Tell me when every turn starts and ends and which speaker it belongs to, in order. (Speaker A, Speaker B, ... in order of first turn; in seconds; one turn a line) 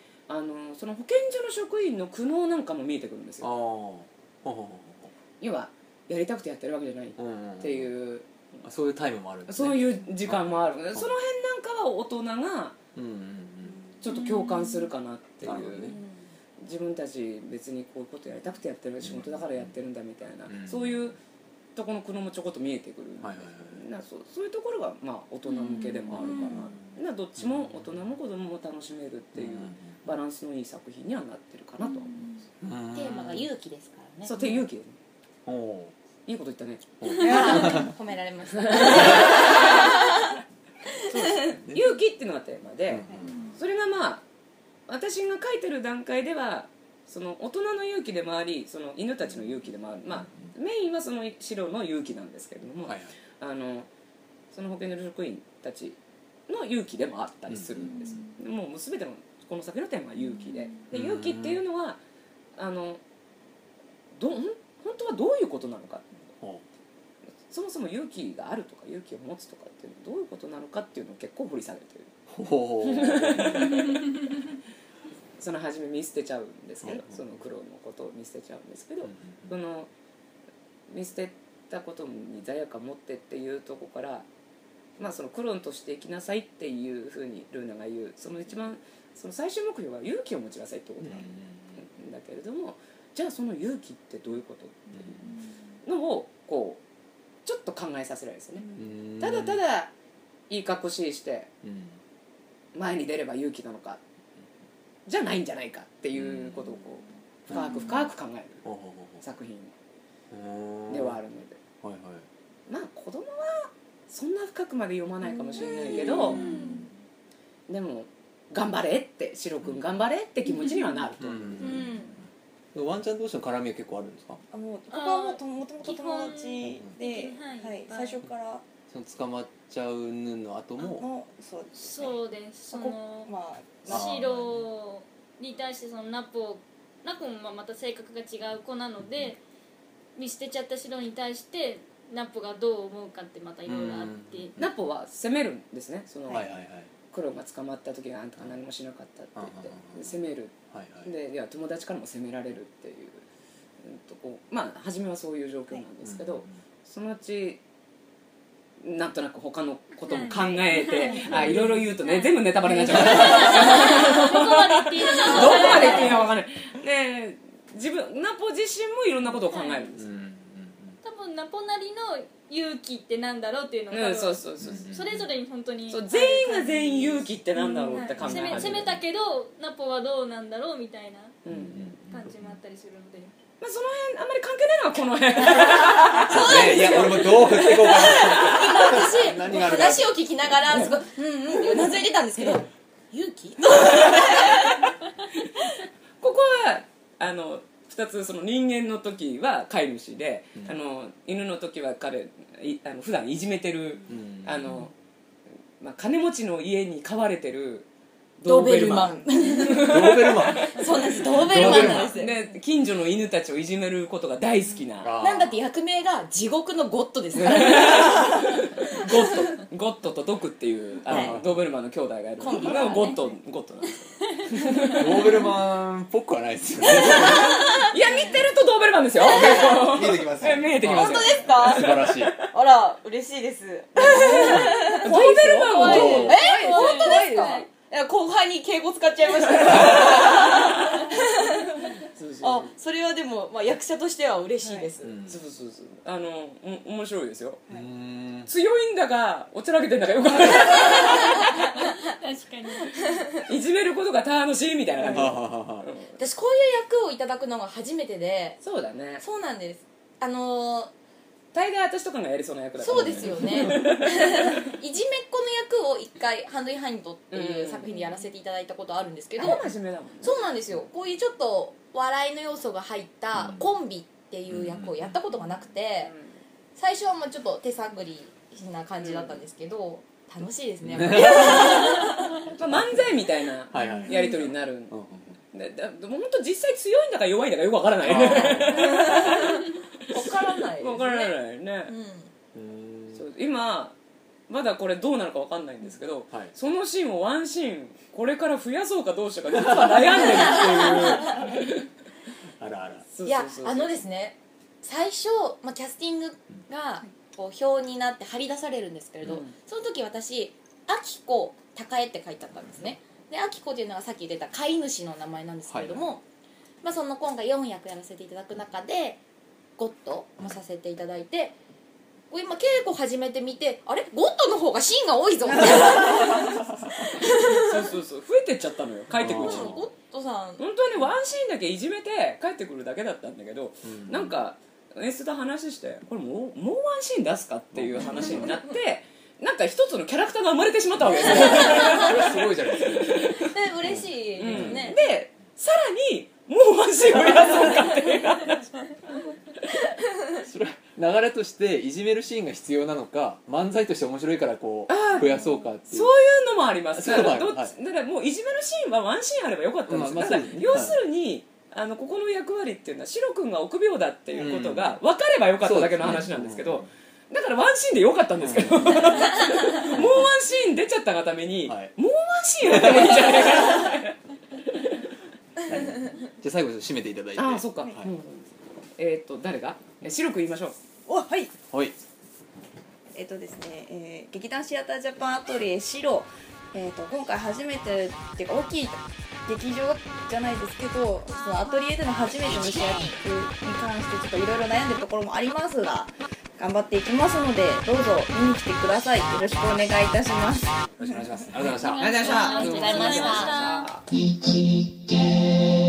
Speaker A: 0.3-3.5
Speaker B: 3.4-5.1
Speaker A: 5.4-8.3
Speaker B: 7.2-7.9
Speaker B: 8.6-11.1
Speaker A: 9.5-12.8
Speaker B: 12.9-13.8
Speaker A: 14.0-16.0
Speaker C: 14.1-14.9
Speaker B: 15.4-16.0
Speaker A: 16.6-21.2
Speaker B: 19.0-19.7
Speaker B: 20.5-21.0
Speaker A: 21.8-32.1
Speaker B: 23.2-23.8
Speaker C: 25.5-26.7
Speaker B: 26.1-26.8
Speaker B: 27.4-27.9
Speaker B: 29.4-29.9
Speaker C: 31.9-32.4
Speaker B: 32.6-33.5
Speaker D: 32.9-34.4
Speaker A: 34.2-35.0
Speaker B: 35.5-35.9
Speaker A: 36.3-37.8
Speaker B: 37.0-37.8
Speaker D: 37.2-40.4
Speaker E: 37.2-37.9
Speaker A: 38.5-39.9
Speaker A: 41.1-44.2
Speaker B: 41.7-41.9
Speaker B: 42.9-43.4
Speaker A: 44.9-53.9
Speaker B: 52.9-53.1
Speaker A: 54.5-56.0
Speaker A: 56.5-62.0
Speaker B: 57.5-58.2
Speaker B: 60.9-61.6
Speaker A: 62.6-63.0
Speaker A: 64.1-66.1
Speaker A: 67.5-72.1
Speaker B: 72.3-73.9
Speaker A: 72.8-74.0
Speaker A: 75.4-79.9
Speaker B: 76.8-77.2
Speaker B: 79.1-79.5
Speaker A: 80.9-84.3
Speaker A: 85.0-95.2
Speaker B: 91.0-91.8
Speaker B: 94.9-95.3
Speaker A: 95.8-96.8
Speaker A: 97.5-99.9
Speaker B: 98.8-99.6
Speaker A: 100.5-101.5
Speaker B: 101.6-102.0
Speaker A: 102.7-104.0
Speaker A: 105.1-108.6
Speaker B: 106.1-106.6
Speaker B: 107.5-108.0
Speaker B: 108.6-109.2
Speaker A: 109.2-109.7
Speaker B: 110.3-111.2
Speaker A: 110.9-111.6
Speaker B: 111.8-112.3
Speaker A: 112.7-116.5
Speaker E: 115.6-116.4
Speaker C: 115.8-116.9
Speaker B: 116.3-116.8
Speaker A: 117.7-121.9
Speaker B: 121.2-122.1
Speaker D: 121.7-122.0
Speaker C: 121.7-122.0
Speaker B: 122.7-124.4
Speaker E: 124.5-128.6
Speaker C: 124.9-128.2
Speaker B: 126.6-126.9
Speaker B: 128.9-131.1
Speaker E: 130.8-132.2
Speaker C: 131.8-133.3
Speaker E: 132.7-134.1
Speaker C: 133.8-139.4
Speaker B: 133.9-134.6
Speaker C: 140.2-144.5
Speaker B: 143.7-144.9
Speaker A: 144.6-146.5
Speaker B: 146.3-146.9
Speaker A: 147.1-150.5
Speaker B: 149.4-150.2
Speaker B: 150.7-151.1
Speaker A: 151.1-153.2
Speaker A: 153.8-157.6
Speaker B: 156.0-156.6
Speaker A: 158.8-170.0
Speaker C: 160.1-166.2
Speaker E: 160.8-161.6
Speaker D: 165.5-166.0
Speaker C: 169.3-169.9
Speaker B: 170.0-171.0
Speaker C: 171.0-181.4
Speaker A: 173.9-174.9
Speaker B: 174.6-175.3
Speaker A: 175.9-178.9
Speaker B: 178.1-179.0
Speaker A: 181.4-181.9
Speaker B: 181.5-182.6
Speaker C: 182.0-183.3
Speaker A: 183.6-188.9
Speaker D: 186.1-194.8
Speaker B: 186.2-190.5
Speaker E: 191.5-192.6
Speaker A: 193.8-194.5
Speaker A: 196.2-204.9
Speaker B: 204.1-204.8
Speaker A: 205.8-207.9
Speaker A: 208.4-215.2
Speaker D: 208.5-212.4
Speaker B: 209.7-212.2
Speaker B: 215.0-215.6
Speaker D: 215.2-218.4
Speaker A: 217.4-225.3
Speaker D: 219.1-219.4
Speaker D: 221.1-221.4
Speaker B: 221.1-221.6
Speaker D: 222.4-223.4
Speaker B: 225.0-227.8
Speaker D: 226.8-228.0
Speaker A: 227.7-232.5
Speaker D: 229.2-229.9
Speaker B: 229.4-232.4
Speaker D: 230.8-241.8
Speaker A: 234.0-237.3
Speaker E: 234.0-236.1
Speaker C: 234.9-237.7
Speaker B: 235.9-236.3
Speaker E: 236.8-237.6
Speaker A: 239.5-240.3
Speaker B: 239.7-240.0
Speaker A: 242.2-242.7
Speaker D: 242.4-245.2
Speaker E: 244.6-244.9
Speaker B: 245.0-245.4
Speaker A: 245.3-247.6
Speaker B: 247.7-248.5
Speaker A: 248.5-251.7
Speaker C: 250.9-253.2
Speaker A: 253.4-256.2
Speaker B: 255.1-255.9
Speaker D: 256.2-258.6
Speaker A: 258.6-259.2
Speaker D: 259.2-260.9
Speaker A: 261.5-264.5
Speaker D: 262.8-269.6
Speaker B: 262.9-263.7
Speaker A: 267.3-268.1
Speaker A: 269.4-270.5
Speaker D: 270.2-276.1
Speaker B: 273.4-273.6
Speaker B: 274.5-275.1
Speaker D: 276.8-282.4
Speaker A: 279.0-279.4
Speaker B: 280.8-281.8
Speaker A: 281.4-281.7
Speaker A: 282.5-289.6
Speaker B: 282.5-285.4
Speaker D: 283.8-284.1
Speaker B: 288.0-289.4
Speaker D: 288.8-291.4
Speaker A: 290.1-291.9
Speaker D: 291.9-292.3
Speaker B: 292.5-293.2
Speaker A: 293.1-294.0
Speaker A: 294.5-301.8
Speaker B: 300.1-301.5
Speaker D: 300.5-301.2
Speaker B: 302.6-303.1
Speaker A: 303.1-304.0
Speaker D: 303.2-316.2
Speaker A: 309.2-309.5
Speaker B: 315.7-316.1
Speaker D: 316.8-319.2
Speaker D: 319.8-321.6
Speaker D: 322.3-327.9
Speaker E: 325.6-326.4
Speaker A: 327.5-329.8
Speaker B: 329.2-329.8
Speaker D: 329.2-330.6
Speaker A: 330.6-342.4
Speaker B: 333.8-334.3
Speaker B: 337.8-338.6
Speaker B: 341.1-345.0
Speaker D: 341.7-342.2
Speaker A: 343.0-343.5
Speaker D: 343.3-345.0
Speaker A: 344.4-348.9
Speaker B: 350.4-356.1
Speaker A: 354.9-355.3
Speaker A: 355.9-374.9
Speaker B: 356.9-357.7
Speaker B: 359.9-361.0
Speaker B: 364.4-365.0
Speaker B: 365.6-366.9
Speaker B: 368.4-370.3
Speaker B: 371.7-371.9
Speaker B: 372.6-373.5
Speaker B: 375.7-378.1
Speaker A: 377.4-380.8
Speaker E: 381.1-381.5
Speaker B: 381.7-382.0
Speaker E: 383.1-400.8
Speaker D: 392.5-393.1
Speaker B: 401.0-402.3
Speaker C: 401.7-403.9
Speaker A: 402.0-404.0
Speaker D: 402.0-403.7
Speaker E: 402.4-402.9